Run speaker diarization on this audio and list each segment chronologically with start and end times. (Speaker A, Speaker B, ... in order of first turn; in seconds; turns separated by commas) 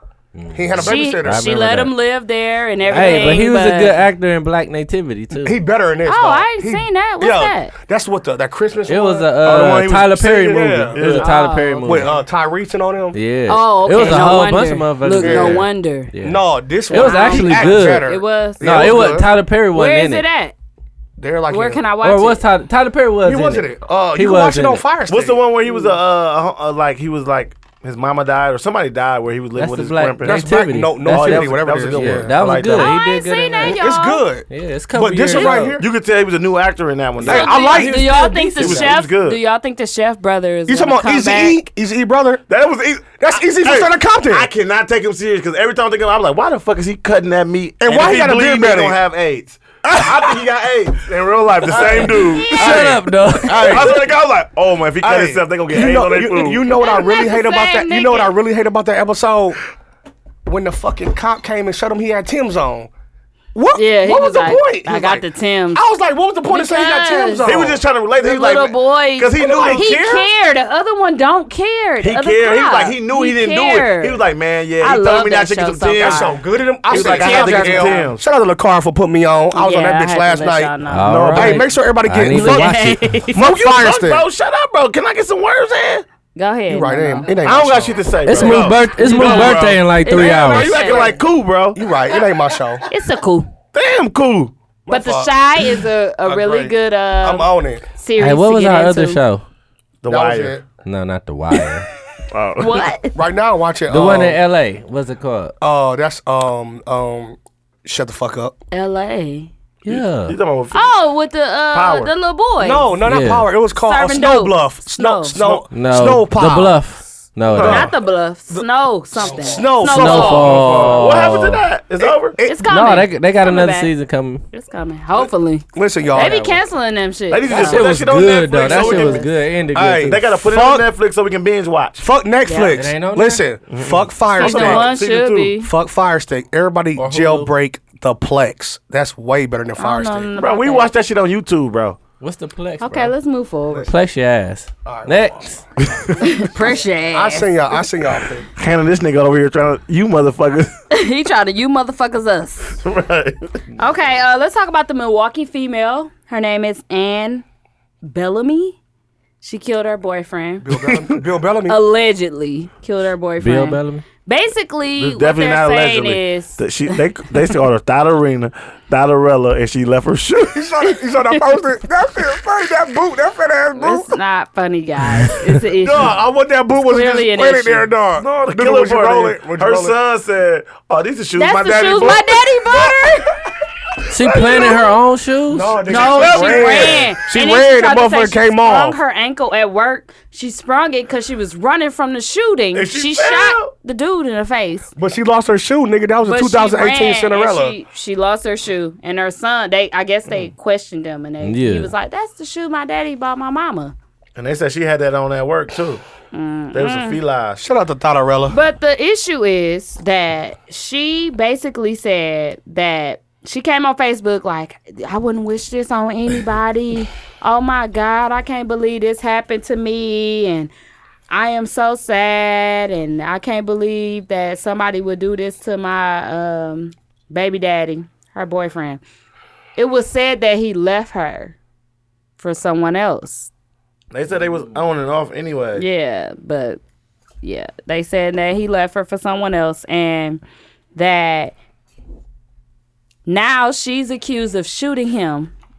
Speaker A: 0.3-1.9, Speaker B: 0.5-1.4, Speaker C: 0.8-4.0, Speaker B: 2.9-3.4, Speaker A: 2.9-5.6, Speaker B: 5.4-9.6, Speaker C: 6.1-7.7, Speaker A: 8.9-12.1, Speaker D: 9.4-11.3, Speaker B: 10.5-11.0, Speaker C: 11.0-12.2, Speaker B: 11.9-13.2, Speaker A: 13.1-18.1, Speaker C: 13.5-16.1, Speaker B: 13.9-14.3, Speaker B: 15.2-15.7, Speaker B: 16.2-19.3, Speaker C: 16.9-19.0, Speaker A: 18.6-20.2, Speaker C: 19.7-20.5, Speaker B: 21.2-21.8, Speaker C: 21.5-22.4, Speaker A: 22.0-24.8, Speaker B: 23.2-25.4, Speaker D: 25.1-30.5, Speaker C: 25.7-25.9, Speaker A: 29.6-33.8, Speaker B: 30.2-32.3, Speaker D: 31.1-32.9, Speaker C: 32.8-34.2, Speaker B: 33.6-35.9, Speaker A: 34.5-35.8, Speaker D: 35.3-39.4, Speaker B: 37.2-38.2, Speaker C: 37.2-41.6, Speaker A: 37.8-38.9, Speaker B: 40.7-42.4, Speaker D: 42.5-56.7, Speaker B: 43.2-44.5, Speaker B: 47.8-49.0, Speaker B: 51.7-54.0, Speaker A: 51.8-54.0, Speaker C: 52.3-52.6, Speaker B: 55.0-59.6, Speaker C: 56.7-58.4, Speaker B: 60.5-62.9, Speaker B: 63.5-67.8, Speaker C: 63.8-65.8, Speaker C: 66.5-67.5, Speaker D: 67.4-69.9, Speaker C: 68.2-74.2, Speaker B: 69.3-70.3, Speaker D: 72.0-76.3, Speaker C: 74.8-76.3, Speaker B: 76.0-80.7, Speaker C: 76.9-78.1, Speaker D: 76.9-78.2, Speaker C: 79.5-81.4, Speaker A: 80.9-83.2, Speaker D: 81.0-81.7, Speaker B: 81.3-82.7, Speaker C: 82.3-83.4, Speaker B: 83.3-84.2, Speaker D: 83.3-86.0, Speaker C: 86.3-87.3, Speaker B: 86.7-88.6, Speaker D: 87.3-91.8, Speaker A: 88.3-90.9, Speaker C: 88.9-91.2, Speaker B: 91.8-92.9, Speaker C: 92.9-93.5, Speaker D: 93.7-94.5, Speaker B: 94.9-95.3, Speaker C: 94.9-99.2, Speaker B: 96.2-97.8, Speaker A: 98.2-99.4, Speaker D: 100.0-100.6, Speaker B: 100.1-100.7, Speaker A: 100.8-101.9, Speaker D: 102.3-102.9, Speaker C: 102.6-103.2, Speaker B: 103.2-104.4, Speaker A: 103.9-105.5, Speaker B: 105.6-108.6, Speaker C: 108.7-109.5, Speaker A: 109.8-110.4, Speaker D: 109.9-111.0, Speaker C: 110.7-112.9, Speaker D: 111.7-112.1, Speaker B: 112.6-116.8, Speaker A: 113.1-113.5, Speaker C: 113.8-115.4, Speaker A: 115.7-117.9, Speaker D: 117.5-117.9, Speaker C: 117.6-120.6, Speaker B: 119.2-121.3, Speaker A: 119.8-121.6, Speaker D: 120.8-122.4, Speaker B: 122.0-123.0, Speaker C: 122.4-123.9, Speaker A: 122.7-124.4, Speaker C: 124.5-127.8, Speaker B: 125.2-126.6, Speaker D: 127.3-129.3, Speaker A: 127.5-130.3, Speaker C: 128.6-129.3, Speaker B: 129.7-130.9, Speaker D: 130.1-132.1, Speaker B: 132.0-134.9, Speaker C: 132.4-132.9, Speaker A: 132.8-133.4, Speaker D: 133.7-135.5, Speaker C: 134.4-135.7, Speaker B: 135.6-140.3, Speaker A: 137.0-137.5, Speaker C: 139.8-140.9, Speaker D: 140.4-142.0, Speaker A: 142.2-143.1, Speaker C: 142.8-143.9, Speaker A: 143.9-145.6, Speaker B: 144.9-145.2, Speaker D: 145.8-146.2, Speaker C: 146.2-147.5, Speaker B: 147.1-148.5, Speaker D: 148.6-150.7, Speaker C: 150.9-152.8, Speaker D: 152.8-153.4, Speaker C: 153.8-157.4, Speaker C: 158.0-158.8, Speaker C: 159.4-160.7, Speaker B: 160.6-161.8, Speaker C: 161.7-167.0, Speaker A: 163.4-164.1, Speaker D: 165.0-170.7, Speaker B: 170.5-174.1, Speaker C: 173.8-176.2, Speaker B: 175.8-179.9, Speaker C: 176.8-177.9, Speaker D: 178.2-182.4, Speaker C: 181.4-183.3, Speaker A: 184.1-185.8, Speaker D: 184.3-184.8, Speaker B: 185.5-189.0, Speaker C: 185.9-194.9, Speaker D: 185.9-187.1, Speaker D: 192.7-193.7, Speaker B: 195.0-197.8, Speaker C: 196.2-203.9, Speaker A: 201.4-201.9, Speaker D: 204.4-206.0, Speaker C: 206.3-207.2, Speaker D: 206.7-207.6, Speaker B: 207.6-208.6, Speaker C: 208.5-220.7, Speaker C: 221.3-229.0, Speaker C: 229.8-231.6, Speaker C: 232.4-233.5, Speaker D: 234.1-235.8, Speaker C: 235.8-236.8, Speaker C: 237.4-240.4, Speaker C: 240.9-241.5, Speaker C: 243.3-245.5